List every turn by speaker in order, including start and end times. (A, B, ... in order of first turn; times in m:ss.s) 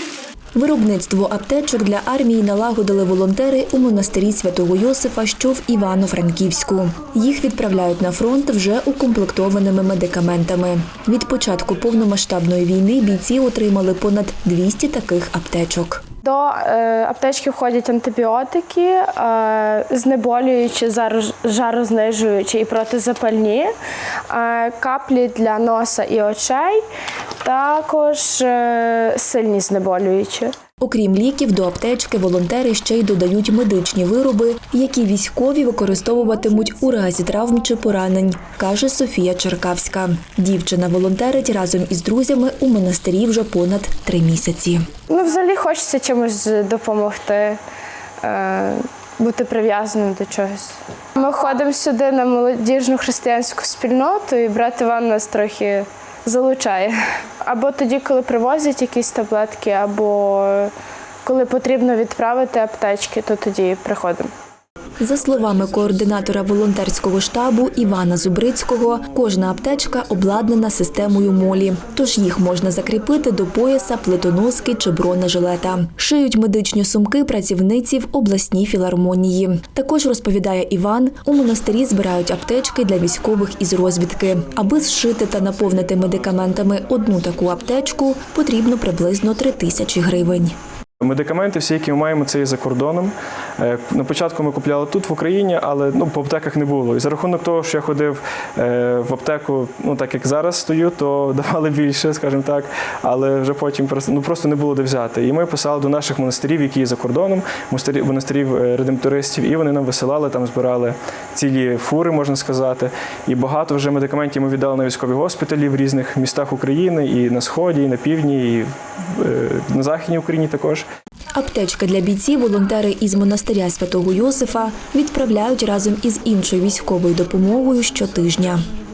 0:00.6-0:16.0 A
0:16.2-0:23.7 B
0:24.3-0:26.8 B
0:27.4-0:30.5 B
0:30.8-0:44.9 A
0:45.1-0:47.6 B
0:48.2-1:00.7 B
1:01.2-1:04.3 B
1:05.0-1:30.5 A
1:31.0-2:00.8 C
2:01.3-2:08.6 A